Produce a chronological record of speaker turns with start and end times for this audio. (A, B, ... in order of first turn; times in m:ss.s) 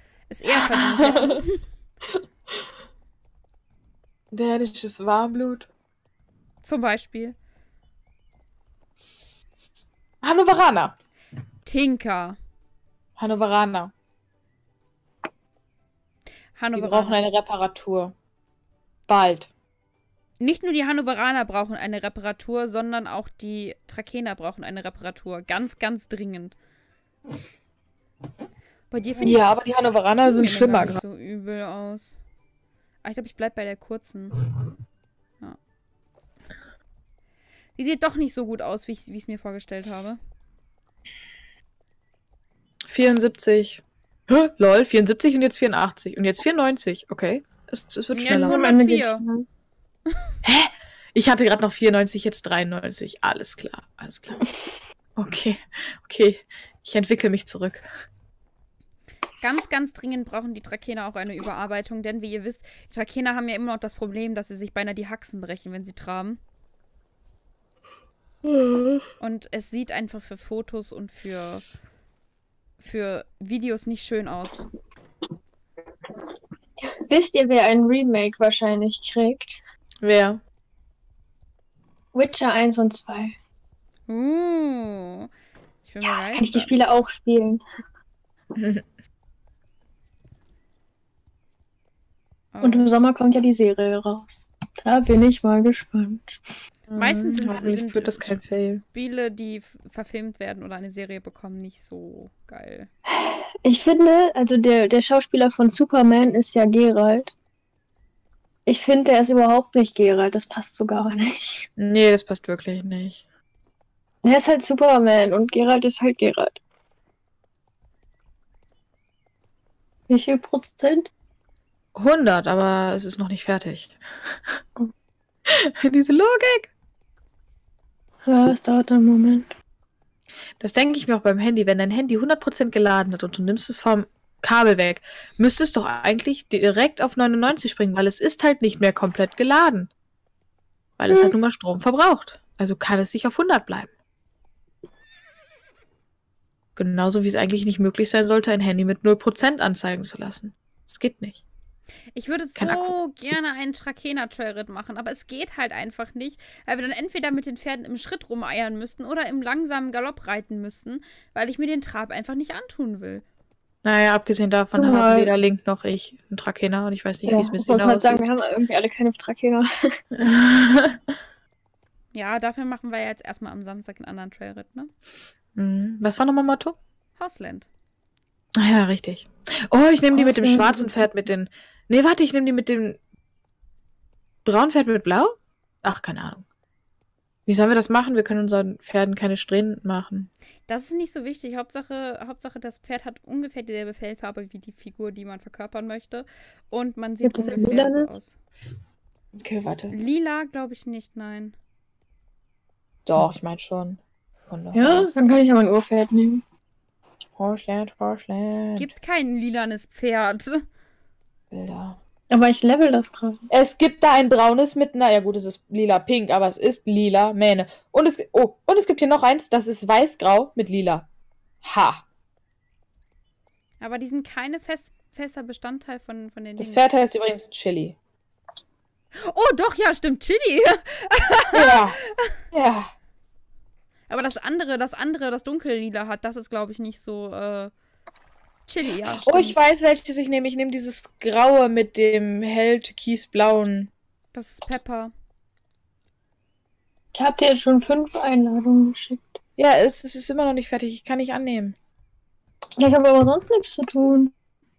0:00.3-0:01.6 A
0:00.9-0:01.4 B
0:04.3-0:05.7 B
0:06.6-0:07.4 A
0:10.2-0:10.9 B
0:11.6-0:12.4 A
0:13.2-0:13.9 B
0:16.6-0:17.2 A
0:16.7-0:18.1 B
0:19.1-0:19.5 B
0:20.4-0:26.5 A
0:28.9-0:29.5 A
0:29.2-0:31.0 B
0:30.2-0:32.2 A
0:33.0-0:34.4 A
0:37.8-0:40.2 A
0:42.9-0:48.6 B
0:48.1-0:49.2 A
0:48.4-0:49.4 C
0:50.4-0:54.4 B
0:55.2-0:57.9 B
0:59.4-1:06.4 A
1:09.2-1:11.6 A
1:12.8-1:14.7 A
1:17.1-1:19.6 C
1:20.0-1:20.4 B
1:22.1-1:23.3 C
1:24.1-1:25.3 A
1:25.8-1:26.8 A
1:26.0-1:27.6 C
1:28.6-1:28.8 B
1:32.5-1:32.9 A
1:32.6-1:36.4 C
1:36.9-1:38.8 B
1:36.9-1:38.4 A
1:38.9-1:42.9 A
1:43.2-1:47.3 C
1:48.7-1:51.7 C
1:51.8-1:53.2 B
1:54.2-1:56.6 C
2:00.1-2:01.1 C
2:01.9-2:04.0 B
2:05.5-2:06.7 B
2:08.2-2:09.5 C
2:10.6-2:19.9 B
2:21.0-2:23.9 B
2:21.1-2:21.3 C
2:26.8-2:31.4 B
2:32.1-2:43.2 A
2:32.6-2:32.9 B
2:43.8-2:48.2 B
2:44.8-2:45.3 C
2:47.2-2:49.7 C
2:50.2-2:51.0 B
2:52.1-2:54.9 A
2:55.6-2:56.8 B
2:57.2-2:57.7 A
2:58.6-3:03.0 B
3:00.1-3:01.1 C
3:04.4-3:06.4 B
3:07.5-3:10.3 B
3:10.7-3:18.3 A
3:17.2-3:18.1 C
3:19.4-3:19.9 B
3:19.9-3:21.5 A
3:23.0-3:25.1 B
3:24.7-3:26.4 C
3:27.4-3:28.9 B
3:28.6-3:30.6 A
3:31.5-3:32.0 B
3:32.3-3:33.4 C
3:33.5-3:41.0 B
3:41.6-3:42.0 B
3:43.8-3:46.8 A
3:46.6-3:48.0 B
3:49.2-3:52.3 A
3:51.5-3:52.0 B
3:52.5-3:52.9 B
3:54.1-3:57.7 A
3:58.7-3:59.6 A
3:59.2-4:03.9 B
4:04.3-4:05.1 A
4:07.1-4:09.4 C
4:09.6-4:11.8 B
4:12.8-4:14.3 C